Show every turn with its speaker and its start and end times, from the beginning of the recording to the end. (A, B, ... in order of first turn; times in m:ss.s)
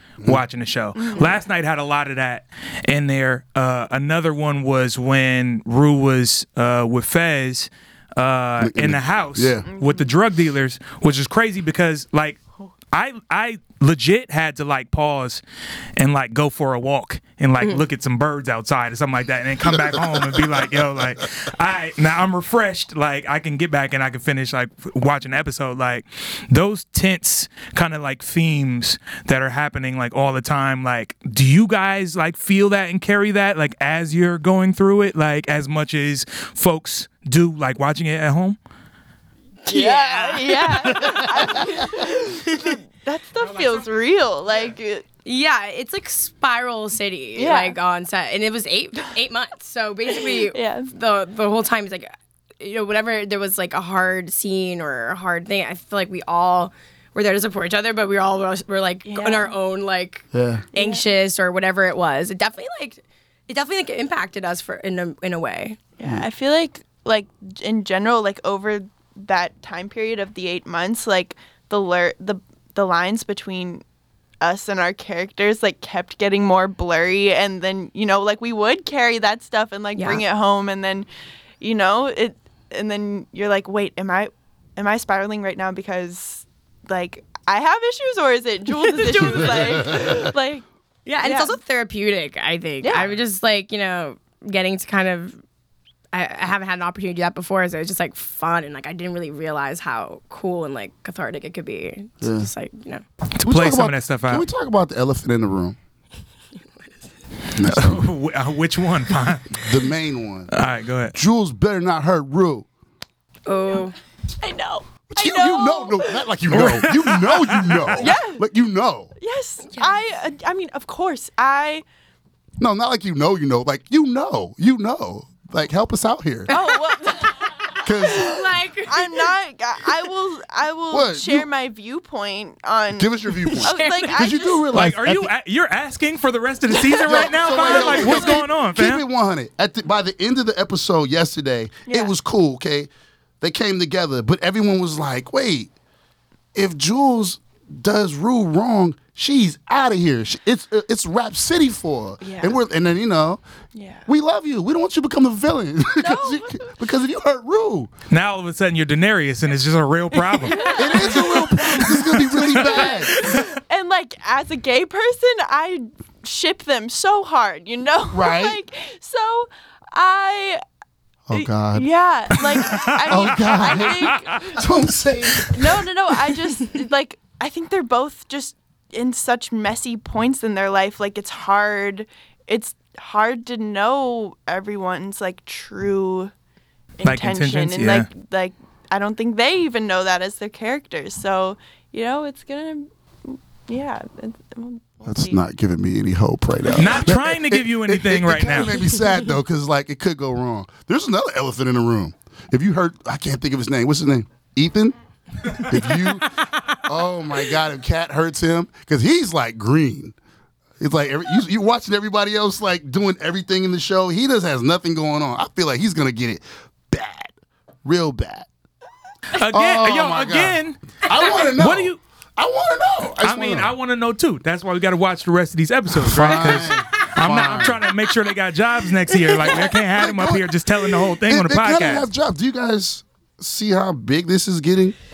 0:00.2-0:15.4 A
0:01.0-0:01.4 B
0:08.6-0:09.7 C
0:09.7-0:10.1 B
0:16.0-0:38.6 A
0:19.7-0:20.4 C
0:39.6-0:42.7 D
0:39.7-0:45.0 B
0:43.4-0:43.9 A
0:45.2-1:05.8 D
0:47.4-0:47.8 B
0:50.4-0:50.9 B
0:59.1-0:59.5 B
1:00.3-1:00.6 C
1:00.7-1:01.0 B
1:06.0-1:13.8 B
1:14.4-1:21.1 B
1:20.0-1:20.2 D
1:21.6-1:30.6 B
1:28.8-1:30.1 D
1:29.5-1:30.2 C
1:31.1-1:35.4 D
1:31.2-1:31.6 B
1:32.8-1:33.2 B
1:36.1-1:43.0 D
1:42.2-1:42.5 C
1:43.4-1:44.5 A
1:43.4-1:45.8 C
1:46.8-1:47.1 D
1:47.5-1:48.1 C
1:47.6-1:49.8 A
1:49.5-1:50.6 C
1:50.5-1:51.2 A
1:51.1-1:52.7 C
1:53.5-1:54.0 D
1:54.4-1:56.2 B
1:55.1-1:59.1 C
1:56.5-1:58.0 A
1:58.0-1:58.4 B
1:59.2-2:01.8 B
1:59.7-2:00.0 D
2:02.6-2:06.5 C
2:06.5-2:07.5 D
2:06.5-2:07.7 B
2:07.8-2:08.4 C
2:08.0-2:09.3 D
2:08.8-2:14.7 B
2:10.9-2:11.5 C
2:13.0-2:15.3 C
2:13.5-2:14.5 D
2:14.7-2:19.0 A
2:17.0-2:22.9 C
2:17.5-2:18.2 D
2:21.9-2:22.1 B
2:23.4-2:25.7 C
2:26.5-2:33.4 C
2:32.2-2:32.6 B
2:33.8-2:34.1 B
2:34.1-2:37.9 C
2:36.0-2:36.7 B
2:38.1-2:40.8 A
2:40.4-2:41.9 B
2:40.8-2:43.3 C
2:41.9-2:43.6 A
2:42.5-2:50.6 B
2:48.1-2:48.6 C
2:51.3-2:51.9 C
2:51.3-2:54.6 B
2:52.7-2:54.0 A
2:52.8-2:55.8 C
2:55.5-3:06.3 B
3:07.0-3:15.4 B
3:07.0-3:08.1 A
3:15.0-3:25.0 C
3:16.8-3:18.8 A
3:25.5-3:30.2 C
3:30.8-3:38.5 C
3:39.4-3:42.0 A
3:39.5-3:43.7 C
3:43.2-3:52.1 A
3:45.9-3:47.8 C
3:46.7-3:47.9 D
3:49.5-3:55.0 C